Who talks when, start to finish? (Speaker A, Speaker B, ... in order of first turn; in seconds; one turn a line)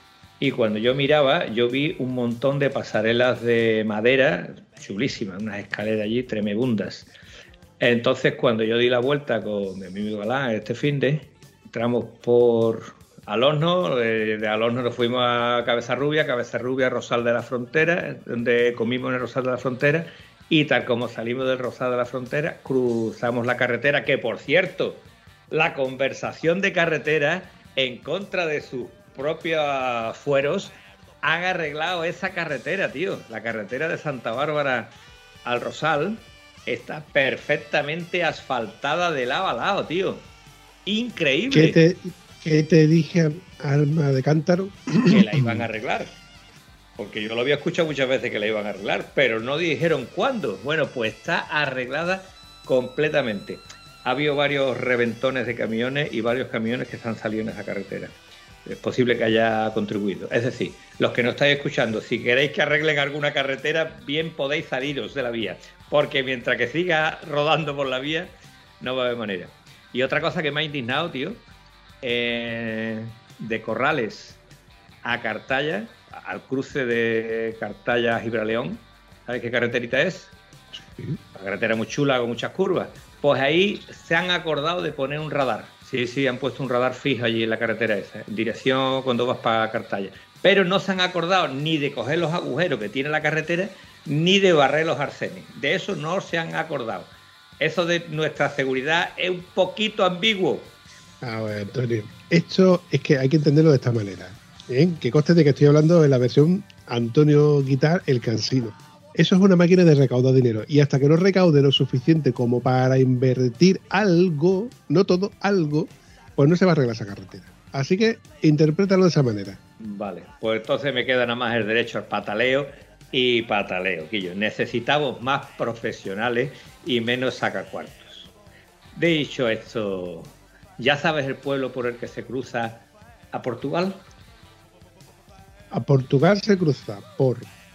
Speaker A: 0.4-7.1
Speaker A: 7.8-34.9
Speaker A: 35.5-40.3
Speaker A: 40.9-41.8
Speaker B: 41.5-45.7
Speaker A: 45.1-46.1
Speaker A: 47.0-71.4
Speaker A: 72.0-74.4
Speaker A: 75.0-80.3
Speaker A: 81.3-100.8
Speaker B: 101.2-119.6
Speaker A: 119.8-128.3
Speaker A: 128.9-134.0
Speaker B: 135.7-137.5